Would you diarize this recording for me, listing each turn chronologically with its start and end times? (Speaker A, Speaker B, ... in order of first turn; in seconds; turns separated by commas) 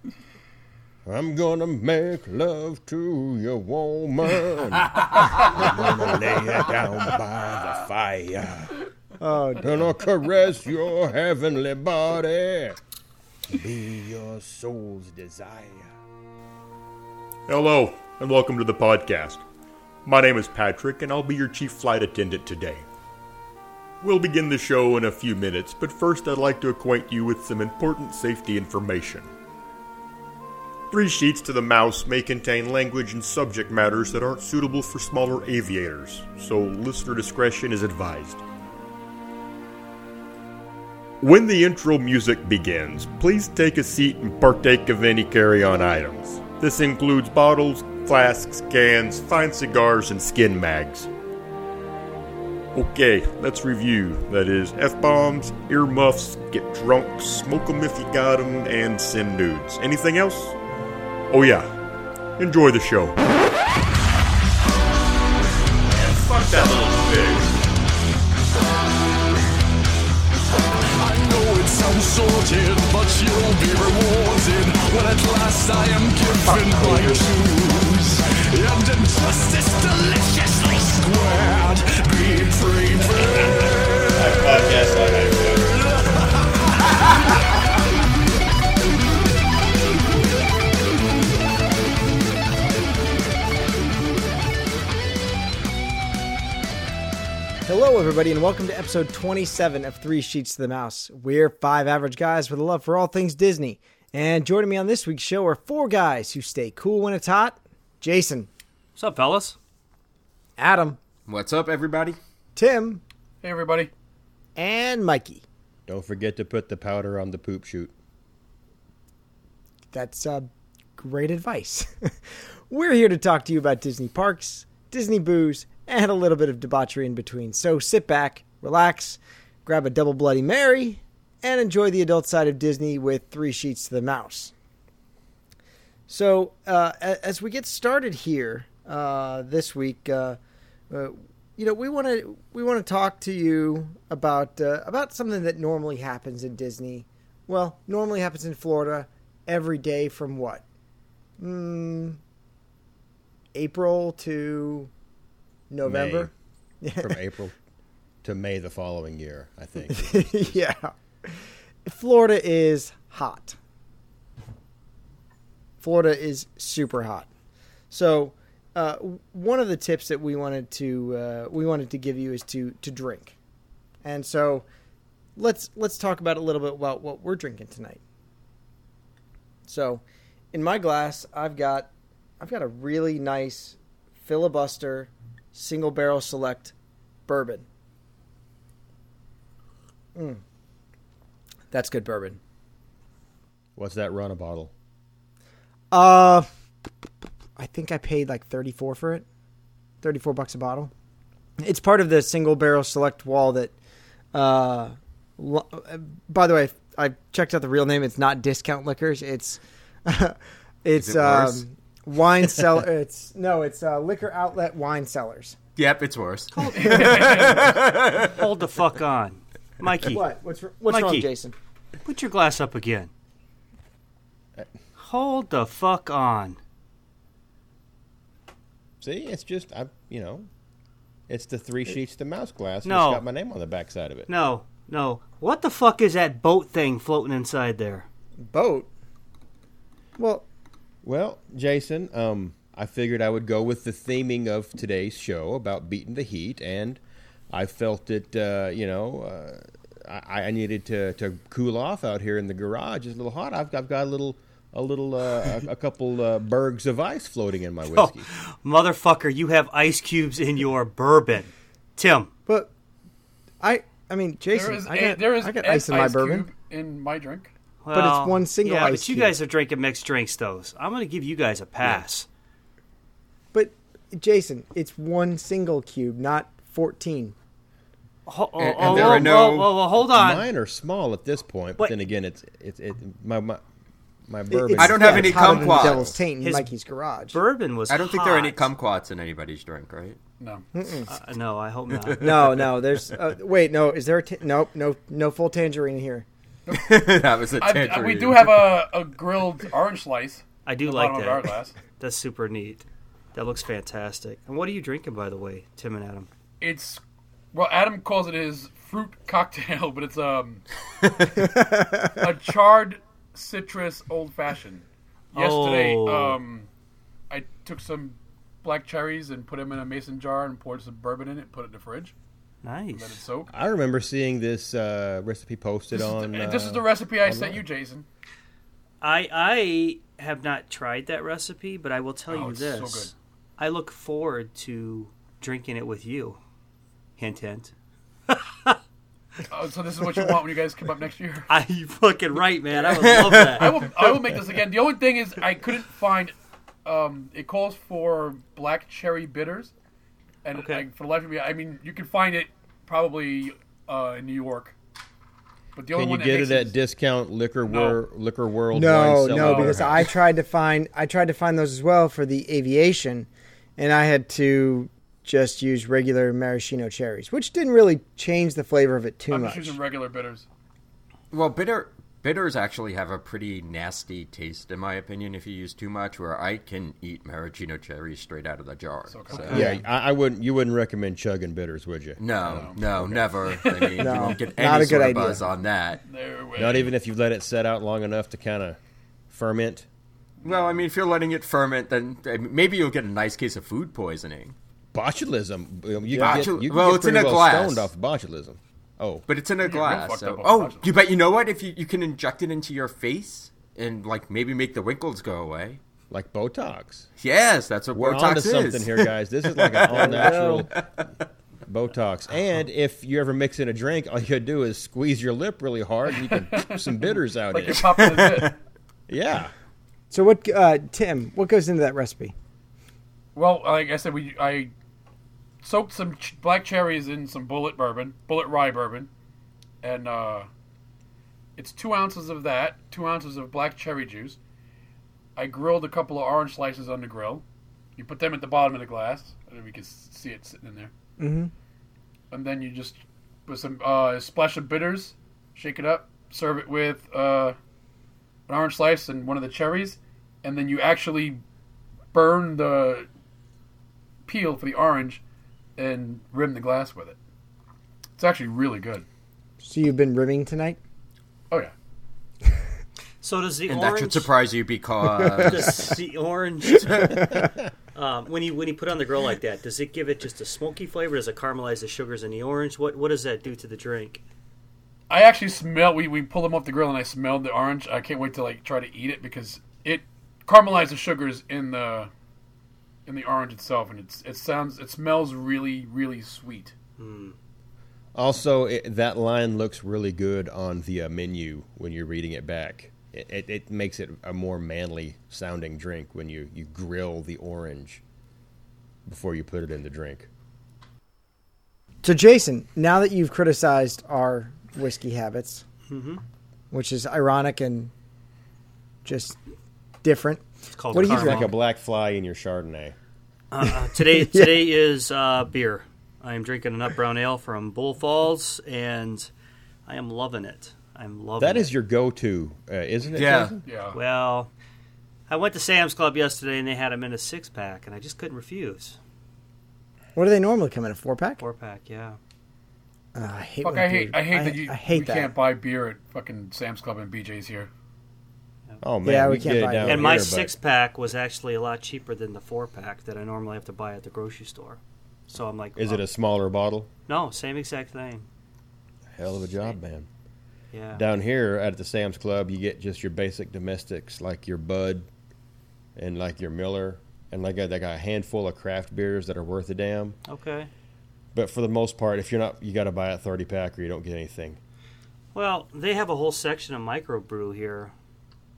Speaker A: 1.0-8.8, Speaker B: 9.2-9.7, Speaker A: 9.6-12.8, Speaker A: 13.5-15.9, Speaker C: 17.5-19.4, Speaker C: 20.0-22.8, Speaker C: 24.0-29.3, Speaker C: 30.9-38.4, Speaker C: 41.2-51.1, Speaker C: 52.7-60.6, Speaker C: 61.3-61.8, Speaker C: 62.4-63.2, Speaker C: 66.1-67.5, Speaker D: 70.9-84.3, Speaker A: 83.5-85.8, Speaker B: 97.7-108.5, Speaker E: 109.0-109.6, Speaker B: 110.6-111.0, Speaker F: 111.3-112.2, Speaker B: 112.6-113.0, Speaker G: 113.4-113.9, Speaker B: 114.6-115.4, Speaker A: 115.9-117.9, Speaker B: 119.9-134.5, Speaker B: 136.1-140.4, Speaker B: 140.9-150.6, Speaker B: 151.4-152.2, Speaker B: 153.5-154.9, Speaker B: 155.7-156.3, Speaker A: 155.8-156.3, Speaker B: 156.8-157.2, Speaker A: 156.9-157.6, Speaker A: 158.2-160.6, Speaker B: 159.9-163.6, Speaker B: 165.8-167.3, Speaker B: 167.9-173.3, Speaker B: 174.0-174.7, Speaker B: 175.3-178.0, Speaker B: 179.7-180.0, Speaker B: 180.5-186.7, Speaker B: 187.3-187.7, Speaker B: 190.2-190.4, Speaker B: 191.7-192.4, Speaker A: 193.8-194.7, Speaker B: 195.9-196.5, Speaker B: 197.6-199.2, Speaker B: 200.0-200.9, Speaker B: 201.6-203.7, Speaker B: 204.3-215.6, Speaker F: 211.0-211.6, Speaker F: 215.8-218.3, Speaker E: 216.5-220.2, Speaker G: 216.7-217.8, Speaker B: 220.0-221.6, Speaker E: 220.9-221.3, Speaker E: 222.0-223.1, Speaker E: 225.0-226.6, Speaker A: 229.0-230.5, Speaker A: 231.3-234.3, Speaker E: 232.8-233.2, Speaker E: 234.3-238.1, Speaker B: 238.4-238.9, Speaker B: 240.2-240.4, Speaker A: 241.0-247.0, Speaker A: 247.5-258.2, Speaker E: 257.9-262.3, Speaker B: 262.5-262.7, Speaker B: 263.6-266.5, Speaker G: 264.5-267.5, Speaker E: 267.8-272.3, Speaker B: 267.9-269.3, Speaker B: 273.5-277.3, Speaker E: 278.3-280.5, Speaker F: 278.6-279.7, Speaker A: 278.8-283.6, Speaker A: 284.3-286.1, Speaker B: 284.5-287.4, Speaker F: 284.7-286.0, Speaker E: 286.4-286.7, Speaker E: 287.3-288.7, Speaker F: 287.9-290.2, Speaker G: 290.4-290.7, Speaker B: 290.7-291.1, Speaker E: 291.1-292.7, Speaker B: 292.2-296.2, Speaker G: 296.7-301.8, Speaker F: 296.7-298.7, Speaker E: 300.6-306.3, Speaker G: 306.6-307.0, Speaker G: 307.5-316.7, Speaker B: 311.5-312.1, Speaker E: 315.3-316.4, Speaker G: 317.3-322.1, Speaker E: 322.6-323.2, Speaker G: 322.9-323.5, Speaker A: 323.5-327.6, Speaker G: 325.9-328.0, Speaker E: 329.0-336.4, Speaker G: 332.3-333.1, Speaker E: 337.2-337.7, Speaker E: 338.3-338.8, Speaker G: 339.5-341.5, Speaker E: 341.5-343.9, Speaker F: 343.0-343.5, Speaker G: 343.5-346.3, Speaker G: 346.8-349.7, Speaker G: 350.4-354.7, Speaker E: 350.5-350.9, Speaker G: 355.8-356.7, Speaker A: 355.9-360.1, Speaker G: 357.6-358.0, Speaker B: 358.7-369.8, Speaker G: 359.3-359.9, Speaker G: 369.3-370.4, Speaker F: 371.3-379.6, Speaker G: 379.1-379.7, Speaker A: 379.4-383.3, Speaker B: 379.5-379.8, Speaker F: 382.2-386.0, Speaker G: 383.5-384.3, Speaker B: 384.0-385.4, Speaker G: 386.1-386.9, Speaker A: 386.6-388.8, Speaker A: 389.3-389.9, Speaker F: 390.4-394.5, Speaker A: 394.9-399.2, Speaker B: 396.1-396.5, Speaker F: 396.2-397.9, Speaker F: 399.3-405.8, Speaker G: 399.6-400.9, Speaker A: 406.1-407.1, Speaker F: 407.2-410.8, Speaker A: 407.9-410.7, Speaker B: 409.9-410.7, Speaker A: 411.6-418.1, Speaker G: 416.2-418.5, Speaker F: 417.7-418.5, Speaker A: 419.1-419.5, Speaker B: 420.1-422.3, Speaker G: 423.3-424.7, Speaker G: 425.6-429.1, Speaker G: 429.8-430.5, Speaker G: 431.6-434.4, Speaker G: 435.4-437.4, Speaker G: 437.9-440.9, Speaker B: 441.2-441.5, Speaker G: 442.3-447.6, Speaker G: 448.5-451.4, Speaker G: 452.1-453.1, Speaker G: 454.2-455.2, Speaker G: 455.8-457.2, Speaker G: 458.2-459.0, Speaker B: 459.6-460.8, Speaker E: 463.2-464.3, Speaker F: 463.7-466.0, Speaker E: 465.4-474.2, Speaker F: 466.8-467.1, Speaker G: 475.1-482.1, Speaker G: 483.1-486.7, Speaker E: 487.0-487.3, Speaker A: 488.1-498.0, Speaker A: 499.1-500.3, Speaker B: 502.0-505.6, Speaker E: 505.9-506.2, Speaker B: 506.7-507.9, Speaker B: 509.1-509.4, Speaker B: 510.0-511.5, Speaker E: 510.7-511.5, Speaker A: 510.9-513.0, Speaker E: 513.5-519.3, Speaker B: 513.6-514.7, Speaker E: 519.9-521.7, Speaker A: 521.4-523.6, Speaker F: 523.2-523.5, Speaker G: 523.6-524.0, Speaker E: 523.9-524.5, Speaker E: 525.3-529.0, Speaker B: 530.2-531.4, Speaker E: 531.4-532.2, Speaker B: 533.1-535.3, Speaker G: 533.6-537.7, Speaker A: 538.8-540.5, Speaker B: 539.0-540.2, Speaker E: 539.8-546.0, Speaker A: 545.8-546.9, Speaker E: 547.1-548.3, Speaker A: 549.1-550.1, Speaker E: 550.7-551.0, Speaker A: 550.9-555.1, Speaker A: 556.0-560.2, Speaker E: 560.3-560.7, Speaker A: 561.4-564.6, Speaker E: 565.3-567.9